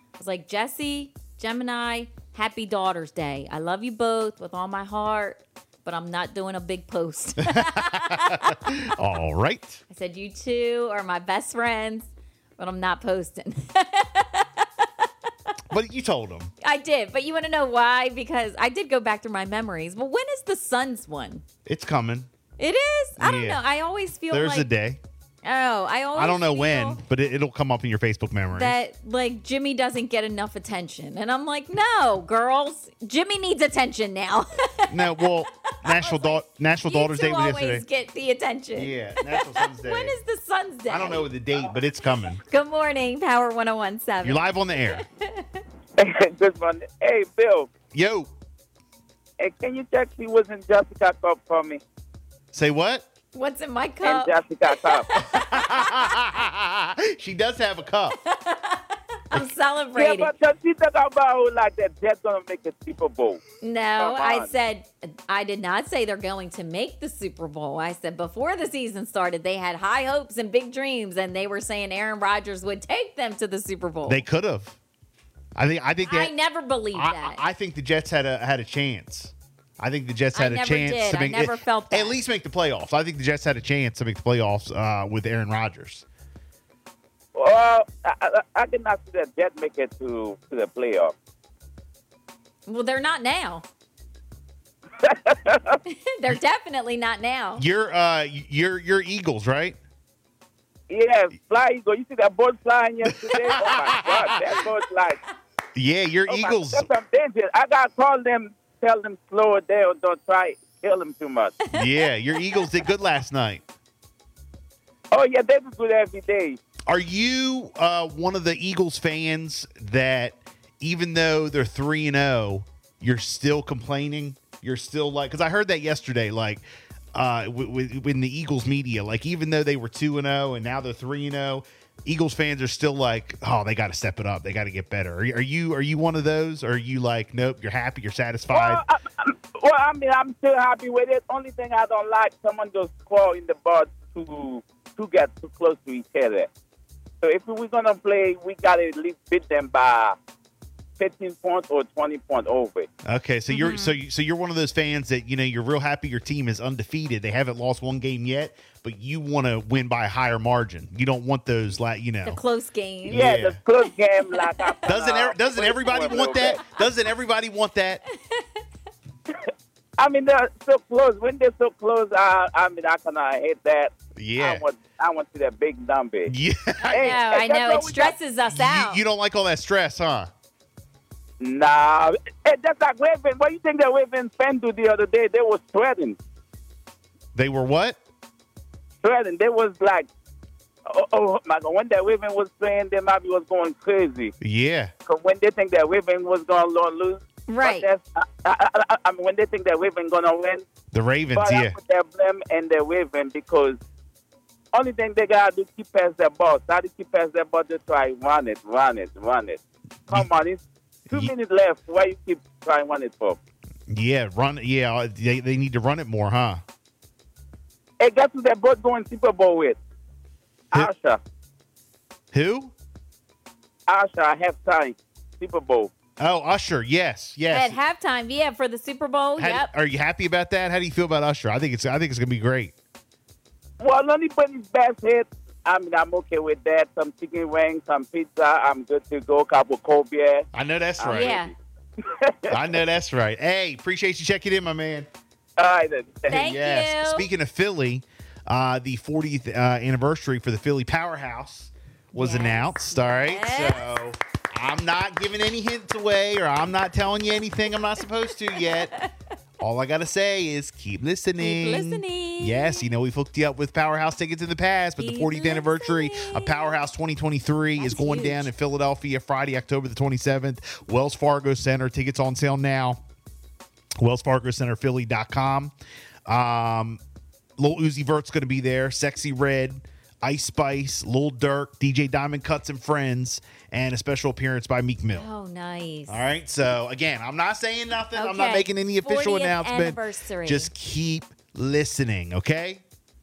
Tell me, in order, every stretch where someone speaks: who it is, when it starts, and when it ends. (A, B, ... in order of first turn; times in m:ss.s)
0:00.2-0:08.7 A
0:07.5-0:09.8 B
0:09.9-0:15.5 A
0:15.7-0:16.5 B
0:16.6-0:21.4 A
0:21.6-0:22.3 B
0:22.6-0:24.7 A
0:23.2-0:23.6 B
0:24.3-0:25.0 B
0:25.4-0:27.0 A
0:26.2-0:28.8 B
0:28.5-0:41.3 A
0:34.9-0:37.8 B
0:38.7-0:40.2 B
0:40.9-0:42.4 B
0:42.4-0:45.6 A
0:44.2-0:45.0 B
0:46.0-0:47.7 C
0:47.9-0:48.3 B
0:49.4-0:51.8 C
0:52.5-0:53.1 B
0:53.3-0:56.2 A
0:54.0-0:55.1 C
0:55.1-0:58.2 B
0:58.2-1:00.3 A
0:59.9-1:03.4 C
1:03.6-1:14.2 A
1:04.0-1:04.5 C
1:14.1-1:14.8 B
1:15.6-1:16.3 B
1:16.0-1:17.4 A
1:16.9-1:26.0 B
1:20.3-1:22.2 A
1:27.3-1:31.1 C
1:32.6-1:33.6 A
1:35.0-1:35.8 C
1:35.8-1:37.6 A
1:37.6-1:39.8 B
1:40.9-1:45.2 C
1:43.0-1:44.5 B
1:45.8-1:46.9 B
1:46.3-1:51.6 C
1:51.7-1:53.6 B
1:55.1-1:56.6 C
1:56.9-2:06.6 B
2:07.1-2:18.8 B
2:18.5-2:26.5 C
2:27.2-2:30.2 C
2:31.0-2:32.9 C
2:33.0-2:42.4 B
2:33.5-2:34.0 A
2:42.2-2:44.9 A
2:43.1-2:43.6 B
2:43.1-2:46.6 C
2:44.8-2:48.0 B
2:48.2-2:48.6 A
2:49.3-2:56.3 C
2:54.2-2:54.6 B
2:56.2-2:57.2 B
2:56.9-2:58.2 C
2:56.9-2:59.0 A
2:58.5-3:00.3 B
3:01.4-3:06.2 C
3:07.3-3:08.0 B
3:09.0-3:10.1 C
3:10.9-3:14.3 C
3:14.4-3:14.9 B
3:15.1-3:20.6 C
3:17.5-3:17.9 A
3:20.9-3:21.8 B
3:21.3-3:23.8 C
3:24.7-3:33.4 C
3:33.9-3:36.6 B
3:38.0-3:39.8 C
3:40.7-3:41.2 C
3:42.3-3:42.7 B
3:43.9-3:45.9 C
3:46.2-3:47.8 B
3:47.5-3:49.7 A
3:49.4-3:52.7 B
3:53.8-4:00.5 C
4:00.5-4:01.4 B
4:01.0-4:02.8 C
4:01.1-4:01.5 A
4:02.5-4:05.1 B
4:05.6-4:06.4 C
4:06.3-4:07.3 A
4:06.3-4:18.9 B
4:12.1-4:14.0 A
4:18.3-4:19.1 A
4:19.6-4:33.0 B
4:21.4-4:22.9 A
4:25.0-4:26.8 A
4:27.8-4:28.5 A
4:34.0-4:35.7 B
4:36.3-4:37.0 B
4:37.6-4:45.3 B
4:45.1-4:46.2 A
4:46.1-4:52.8 B
4:48.1-4:50.7 A